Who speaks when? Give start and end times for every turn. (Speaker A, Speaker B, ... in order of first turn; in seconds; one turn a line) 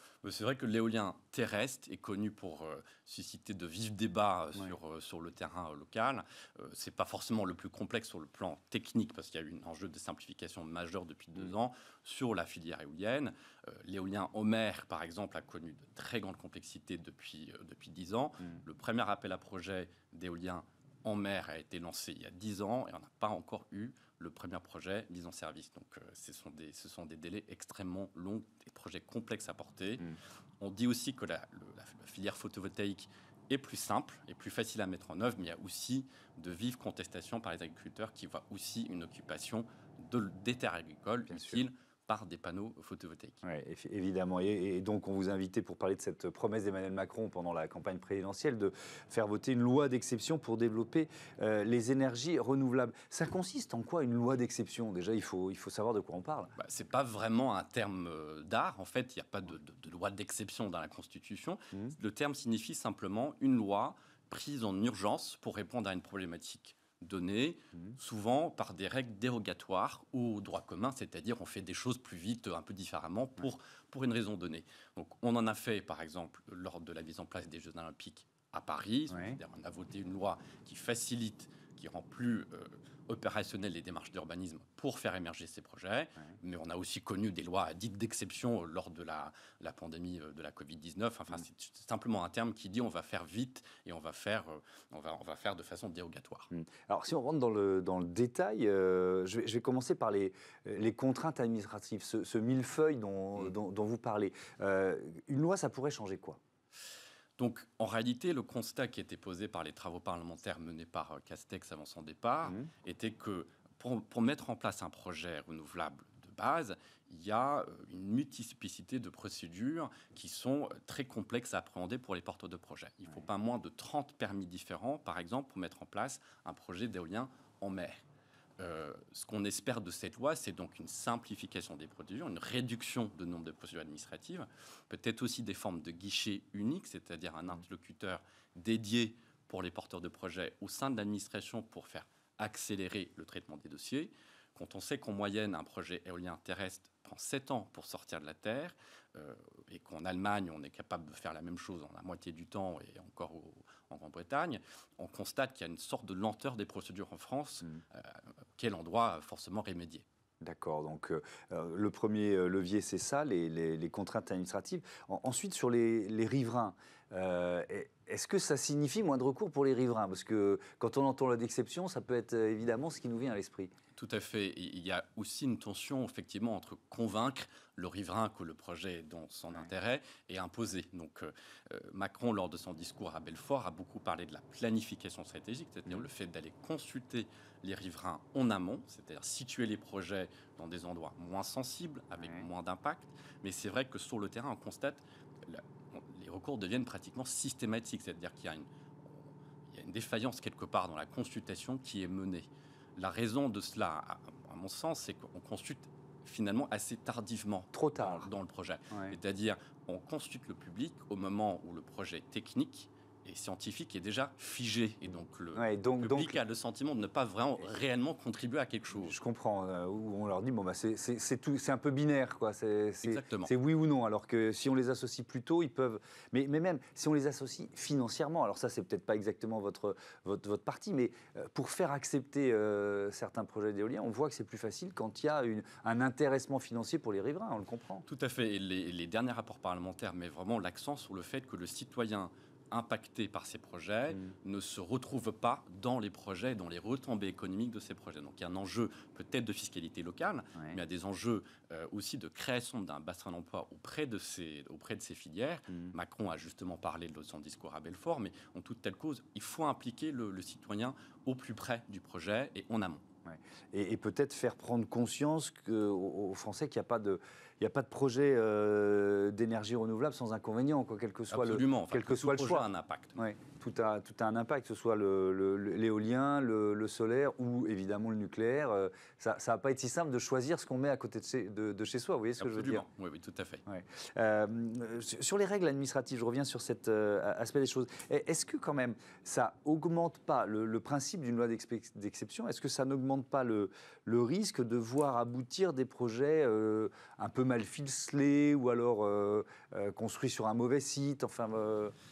Speaker A: 0.2-43.4
Speaker B: 41.3-41.6
Speaker B: 43.4-56.5
Speaker A: 56.6-96.5
Speaker B: 79.1-79.4
Speaker B: 96.5-106.4
Speaker A: 107.4-128.0
Speaker A: 128.6-160.0
Speaker B: 160.4-173.7
Speaker A: 173.9-219.1
Speaker B: 192.2-192.5
Speaker B: 207.7-208.3
Speaker B: 215.5-216.4
Speaker B: 218.9-238.1
Speaker A: 223.0-223.5
Speaker A: 238.1-263.0
Speaker B: 250.5-250.8
Speaker B: 255.7-255.9
Speaker B: 263.2-282.9
Speaker A: 271.3-273.2
Speaker A: 282.4-283.6
Speaker B: 283.7-301.9